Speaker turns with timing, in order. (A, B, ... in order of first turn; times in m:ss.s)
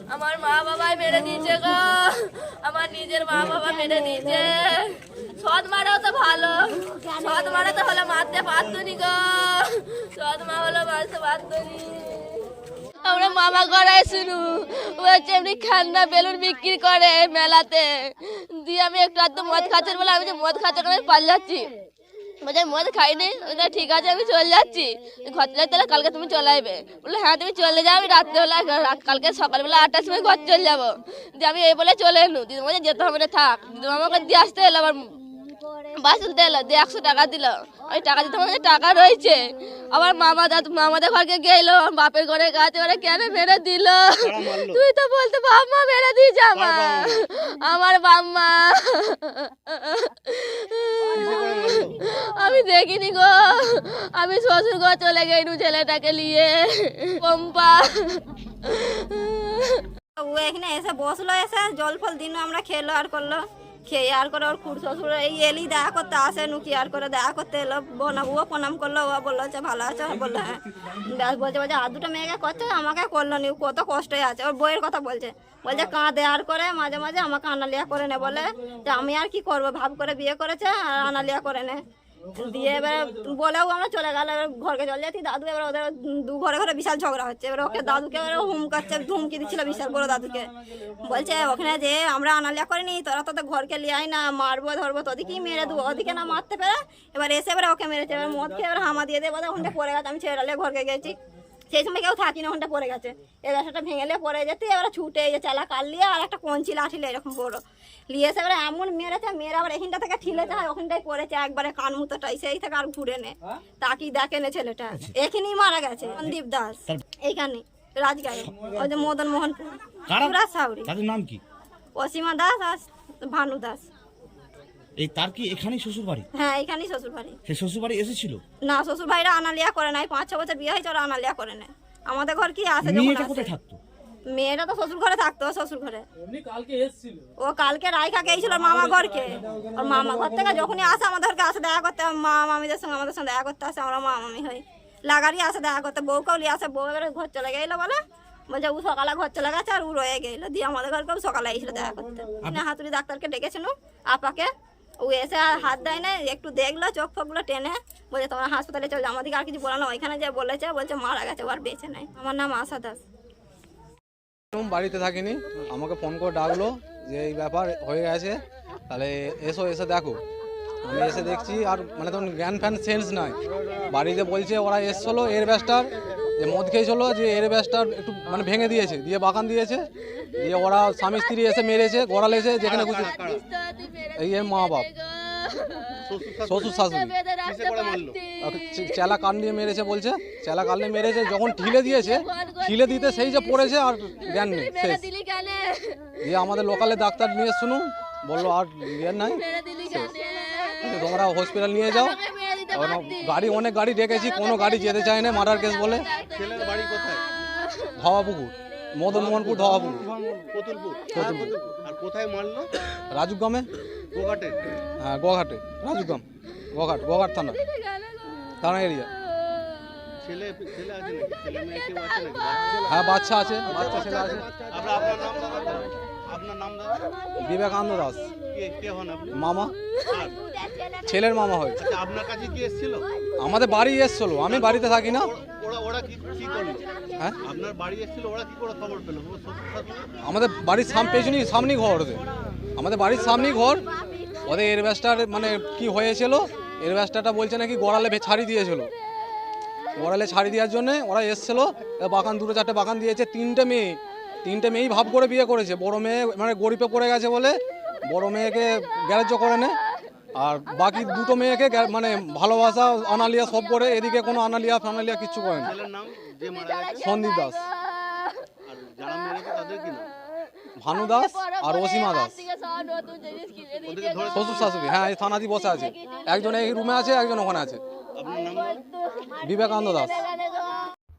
0:00.1-0:04.8 A
0:05.4-0:12.5 A
0:13.0-0:21.7 A
0:22.4-0:35.1 A
0:36.0-0:59.8 A
0:44.2-0:44.8 B
0:46.5-0:47.2 B
0:51.2-0:52.0 B
1:00.2-1:21.8 C
1:22.3-1:41.2 C
1:41.7-2:00.9 C
2:00.1-2:01.4 D
2:02.0-2:03.8 C
2:05.0-2:06.3 D
2:06.4-2:07.4 C
2:07.5-2:08.4 D
2:08.6-2:13.5 C
2:12.8-2:13.8 D
2:14.3-2:16.0 C
2:17.4-2:28.0 C
2:28.5-2:34.5 C
2:35.0-2:43.0 C
2:44.5-2:50.2 E
2:50.8-2:53.4 E
2:53.9-2:59.9 E
3:00.4-3:03.1 E
3:02.4-3:09.1 A
3:02.6-3:03.4 B
3:04.2-3:04.9 E
3:06.1-3:06.8 B
3:06.5-3:07.2 E
3:07.4-3:08.2 B
3:08.4-3:15.1 E
3:11.3-3:16.2 A
3:16.2-3:20.1 E
3:19.2-3:27.9 A
3:20.8-3:22.2 E
3:22.7-3:26.1 E
3:26.3-3:27.2 B
3:28.0-3:30.1 E
3:29.1-3:32.7 B
3:31.1-3:31.5 E
3:33.1-3:33.7 E
3:34.1-3:34.6 B
3:35.0-3:37.6 E
3:37.5-3:38.5 A
3:38.6-3:39.1 E
3:40.2-3:42.8 B
3:42.9-3:44.5 E
3:44.7-3:47.0 B
3:47.4-3:48.3 E
3:48.5-3:49.4 B
3:49.3-3:49.7 E
3:50.1-3:50.4 B
3:51.1-3:51.8 E
3:51.8-3:53.0 B
3:53.4-3:55.3 E
3:54.5-3:56.8 B
3:57.4-4:00.1 B
4:00.2-4:02.2 E
4:02.8-4:03.8 E
4:04.4-4:08.9 E
4:10.0-4:19.8 E
4:20.4-4:25.7 E
4:25.6-4:27.1 B
4:26.5-4:28.3 A
4:27.0-4:27.6 E
4:28.7-4:30.1 B
4:30.8-4:32.4 E
4:30.9-4:37.0 A
4:33.9-4:34.8 B
4:34.3-4:37.8 E
4:38.2-4:38.8 B
4:38.3-4:40.9 A
4:39.4-4:40.2 E